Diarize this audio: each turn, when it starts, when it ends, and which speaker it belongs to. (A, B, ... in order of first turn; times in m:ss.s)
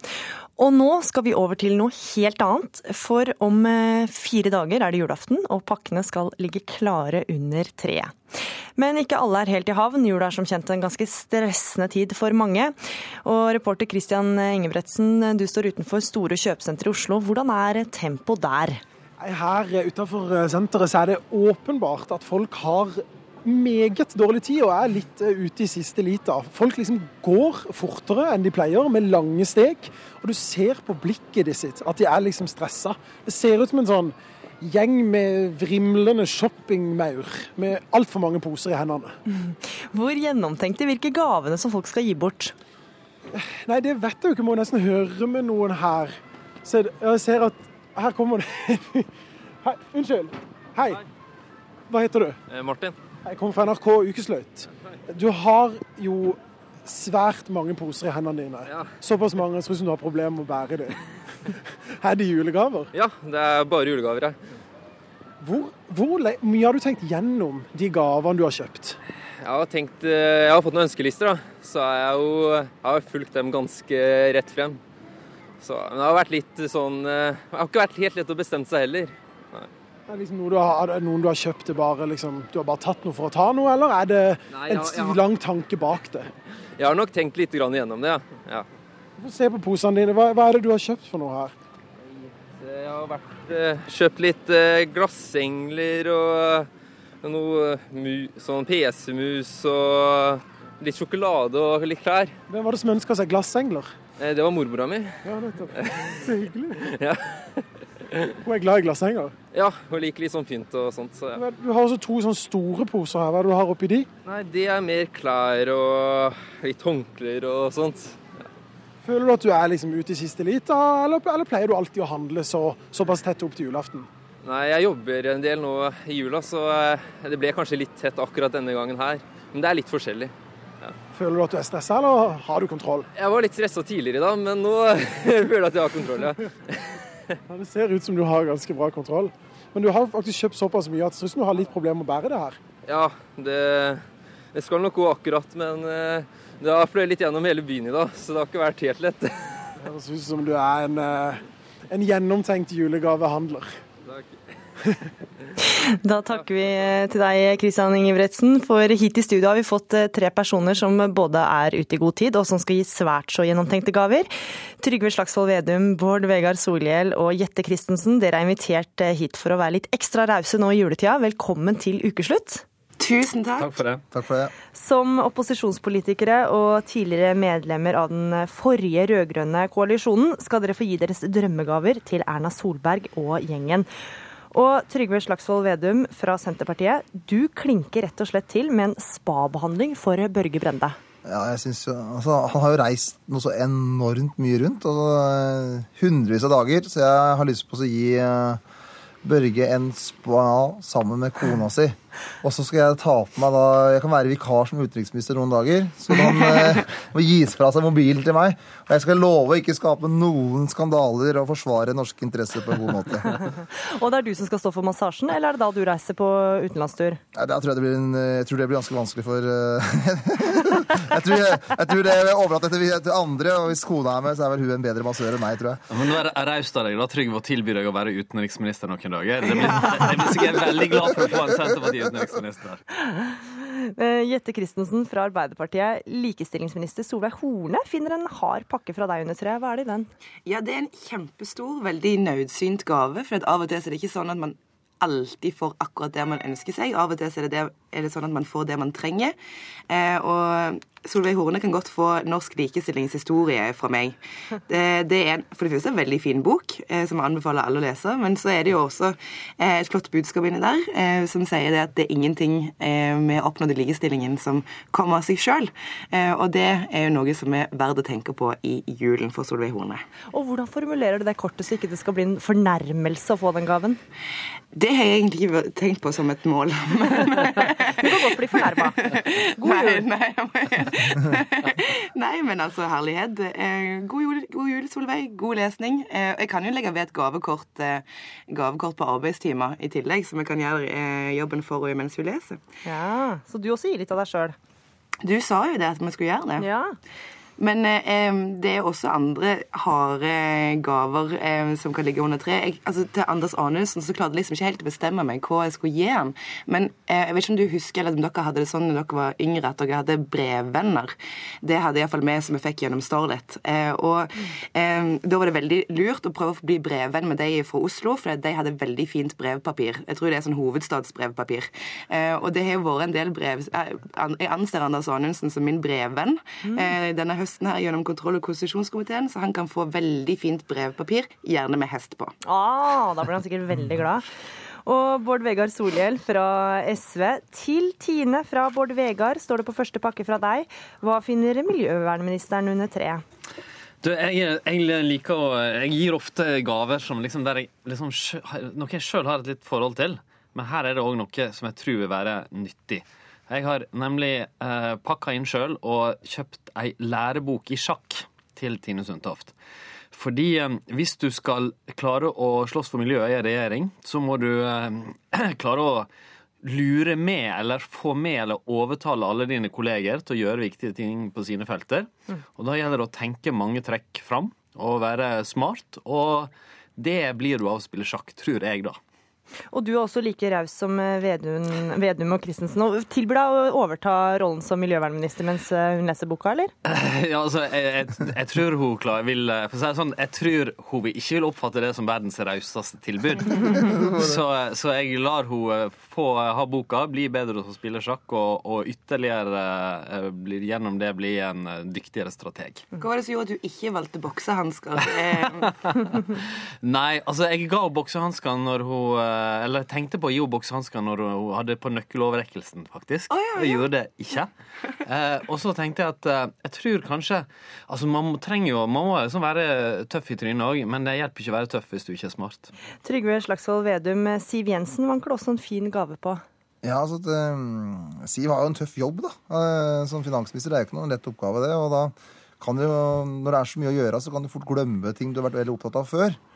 0:00.6-0:18.8 A
0:19.2-0:39.2 B
0:39.3-0:42.6 A
0:43.3-0:49.1 B
0:49.6-0:51.0 B
0:51.9-0:52.4 B
0:52.5-0:53.0 C
0:53.2-1:01.0 B
0:58.7-0:58.9 C
1:02.0-1:02.9 B
1:02.9-1:04.4 C
1:05.4-1:09.0 B
1:09.4-1:14.8 C
1:15.6-1:19.7 C
1:20.1-1:26.3 B
1:24.5-1:25.2 C
1:26.8-1:28.7 C
1:29.2-1:31.5 B
1:32.0-1:36.7 C
1:37.2-1:42.4 C
1:42.5-1:43.9 B
1:44.2-1:45.2 C
1:45.2-1:46.9 B
1:45.8-1:46.1 C
1:46.9-1:47.6 C
1:48.4-1:49.3 B
1:49.5-1:51.4 C
1:51.3-1:54.1 B
1:54.3-1:58.4 C
1:59.0-2:04.1 B
2:04.4-2:11.0 C
2:11.1-2:13.1 B
2:13.2-2:16.8 C
2:17.5-2:22.6 B
2:22.9-2:29.4 C
2:29.8-2:33.7 B
2:34.1-2:34.4 C
2:35.7-2:52.6 A
2:53.0-2:53.8 D
2:53.6-2:54.0 E
2:54.1-2:54.5 F
2:54.7-3:03.9 A
3:04.5-3:11.0 A
3:11.2-3:18.6 F
3:19.2-3:33.4 F
3:33.5-3:37.2 A
3:37.4-3:45.8 F
3:45.9-3:52.8 E
3:53.0-4:00.1 A
4:00.5-4:09.3 D
4:09.9-4:30.0 D
4:30.3-4:34.0 A
4:34.7-4:52.7 D
4:38.0-4:39.0 A
4:39.6-4:40.0 A
4:52.8-4:54.6 A
4:55.2-4:56.7 D
4:56.6-4:57.0 A
4:57.6-5:32.3 D
5:32.4-5:34.3 A
5:34.8-5:43.2 A
5:44.0-5:59.5 E
6:00.1-6:06.1 E
6:06.6-6:12.1 E
6:12.6-6:19.0 E
6:19.7-6:26.7 A
6:26.9-6:42.8 E
6:33.7-6:34.4 F
6:43.0-6:46.2 D
6:46.8-6:54.5 E
6:53.3-6:53.9 D
6:55.1-7:02.7 E
7:03.0-7:06.4 A
7:06.8-7:16.4 F